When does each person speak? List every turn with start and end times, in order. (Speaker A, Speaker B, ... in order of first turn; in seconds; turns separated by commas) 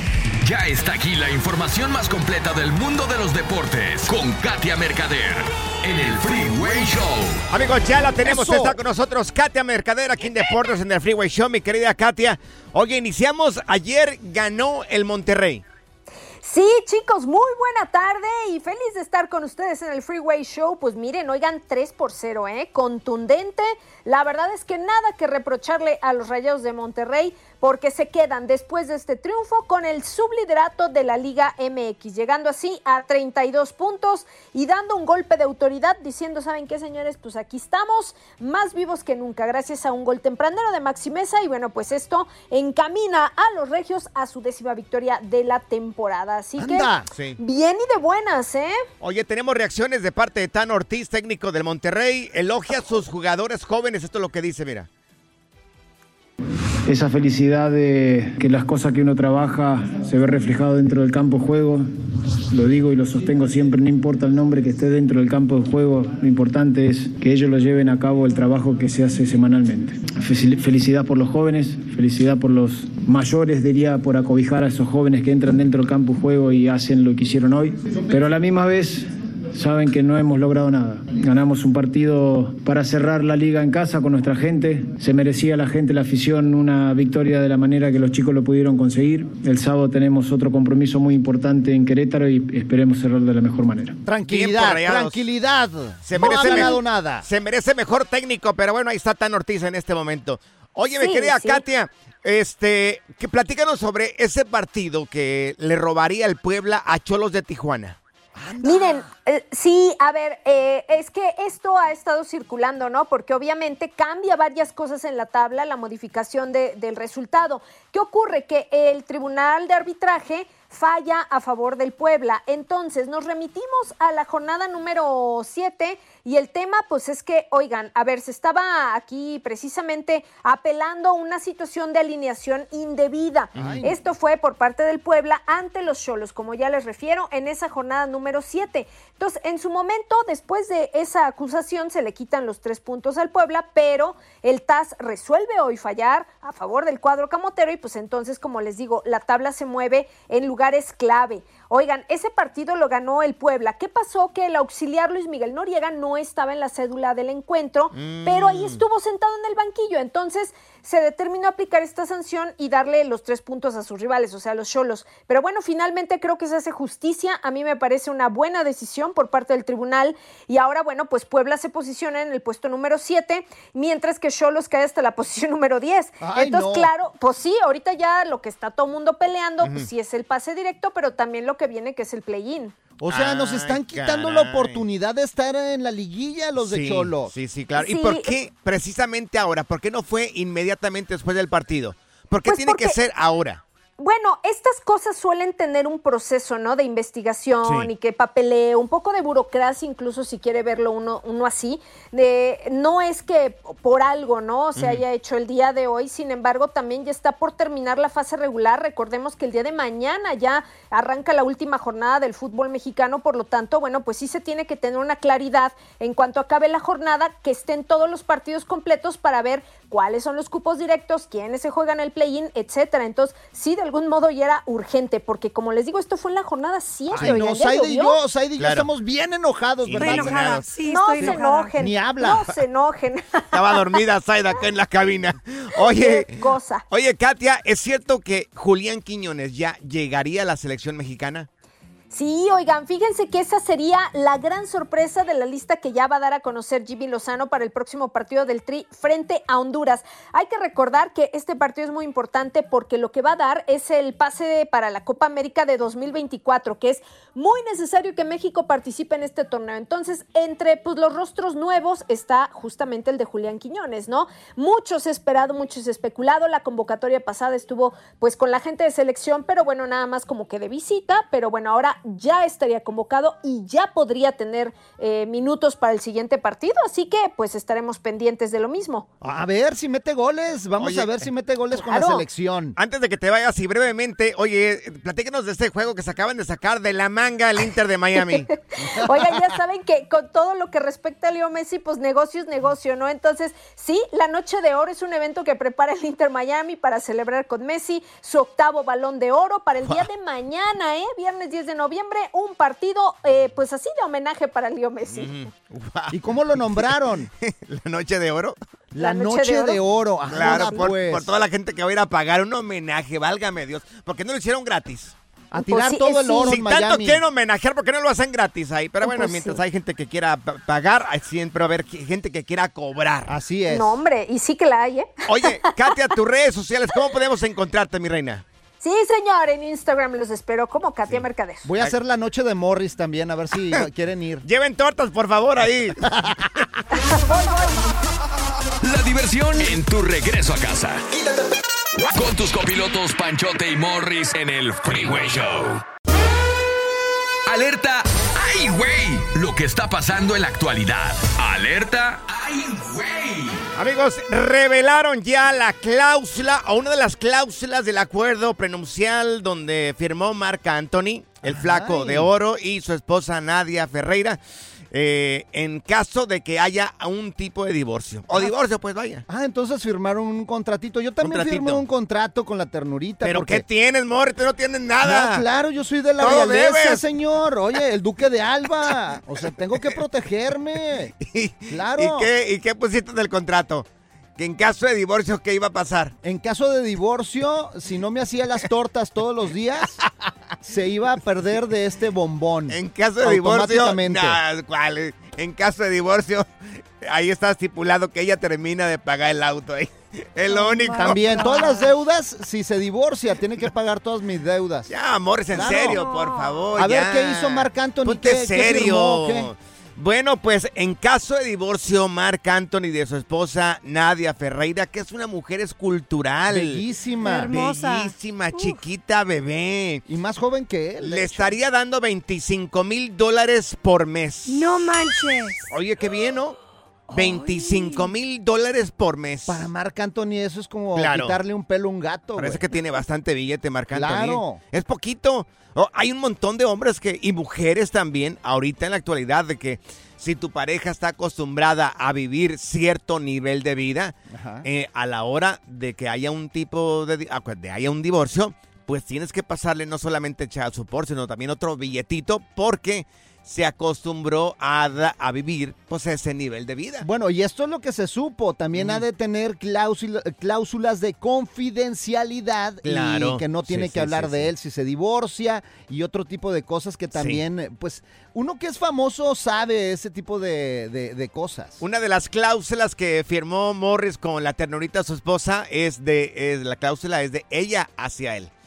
Speaker A: 0.4-7.4, Speaker B: 7.5-15.6, Speaker C: 8.2-8.8, Speaker D: 16.4-48.8, Speaker C: 46.6-47.1, Speaker B: 47.1-47.4, Speaker B: 49.0-54.9, Speaker E: 56.9-61.9, Speaker E: 62.5-94.0, Speaker C: 94.0-97.3, Speaker B: 94.3-95.3, Speaker B: 96.0-108.0, Speaker D: 101.0-101.6, Speaker C: 108.4-109.1, Speaker D: 108.6-182.8, Speaker B: 133.6-133.8, Speaker C: 133.6-134.0, Speaker B: 157.9-158.8, Speaker C: 176.2-176.9, Speaker B: 179.6-179.9, Speaker C: 183.0-187.3, Speaker B: 183.1-184.8, Speaker B: 186.6-193.6, Speaker D: 187.8-188.3, Speaker D: 192.5-193.0, Speaker D: 194.0-228.2, Speaker B: 197.6-197.9, Speaker B: 204.8-205.0, Speaker C: 227.1-230.4, Speaker B: 228.6-228.9, Speaker B: 229.8-230.7, Speaker F: 230.0-231.7, Speaker D: 230.9-233.8, Speaker C: 231.8-232.6, Speaker B: 233.5-241.5, Speaker D: 235.8-236.8, Speaker D: 242.1-279.1, Speaker C: 279.2-282.8, Speaker B: 280.8-281.2, Speaker D: 281.7-282.2, Speaker B: 282.8-288.5, Speaker C: 288.8-289.4, Speaker D: 289.0-305.3, Speaker B: 305.1-308.6, Speaker C: 306.1-307.3, Speaker C: 308.9-311.3, Speaker D: 309.0-309.8, Speaker B: 310.3-315.1, Speaker D: 310.4-310.8, Speaker C: 315.5-317.2, Speaker D: 315.7-316.6, Speaker B: 316.4-323.3, Speaker D: 319.0-319.6, Speaker C: 323.3-324.0, Speaker D: 323.7-325.5, Speaker B: 325.3-328.4, Speaker D: 328.8-331.7, Speaker C: 331.6-334.4, Speaker B: 334.4-336.0, Speaker C: 336.1-336.5, Speaker D: 336.9-337.9, Speaker A: 338.8-341.0, Speaker A: 342.1-345.8, Speaker A: 347.5-353.6, Speaker B: 353.8-364.4, Speaker C: 361.4-362.3, Speaker B: 364.9-369.2, Speaker C: 369.3-373.6, Speaker B: 371.2-371.8, Speaker B: 373.2-375.4, Speaker C: 375.0-381.1, Speaker B: 376.2-377.0, Speaker B: 381.2-383.9, Speaker C: 381.7-382.3, Speaker B: 384.4-386.1, Speaker C: 386.2-390.0, Speaker C: 390.6-394.4, Speaker B: 392.7-396.5, Speaker B: 397.0-401.5, Speaker F: 400.5-401.9, Speaker C: 401.0-404.9, Speaker B: 404.9-416.8, Speaker C: 405.5-406.0, Speaker F: 405.6-406.7, Speaker C: 406.8-409.5, Speaker C: 416.5-417.5, Speaker F: 417.2-418.8, Speaker B: 417.5-420.0, Speaker C: 420.1-421.5, Speaker B: 421.0-424.7, Speaker F: 424.5-425.6, Speaker B: 425.7-426.6, Speaker F: 427.1-428.1, Speaker B: 427.1-429.6, Speaker C: 429.5-432.6, Speaker B: 430.9-431.4, Speaker B: 432.4-457.1, Speaker C: 433.9-434.6, Speaker C: 444.3-444.7, Speaker C: 457.0-471.8, Speaker B: 458.8-459.0, Speaker B: 462.9-464.5, Speaker B: 467.2-467.4, Speaker B: 471.8-478.5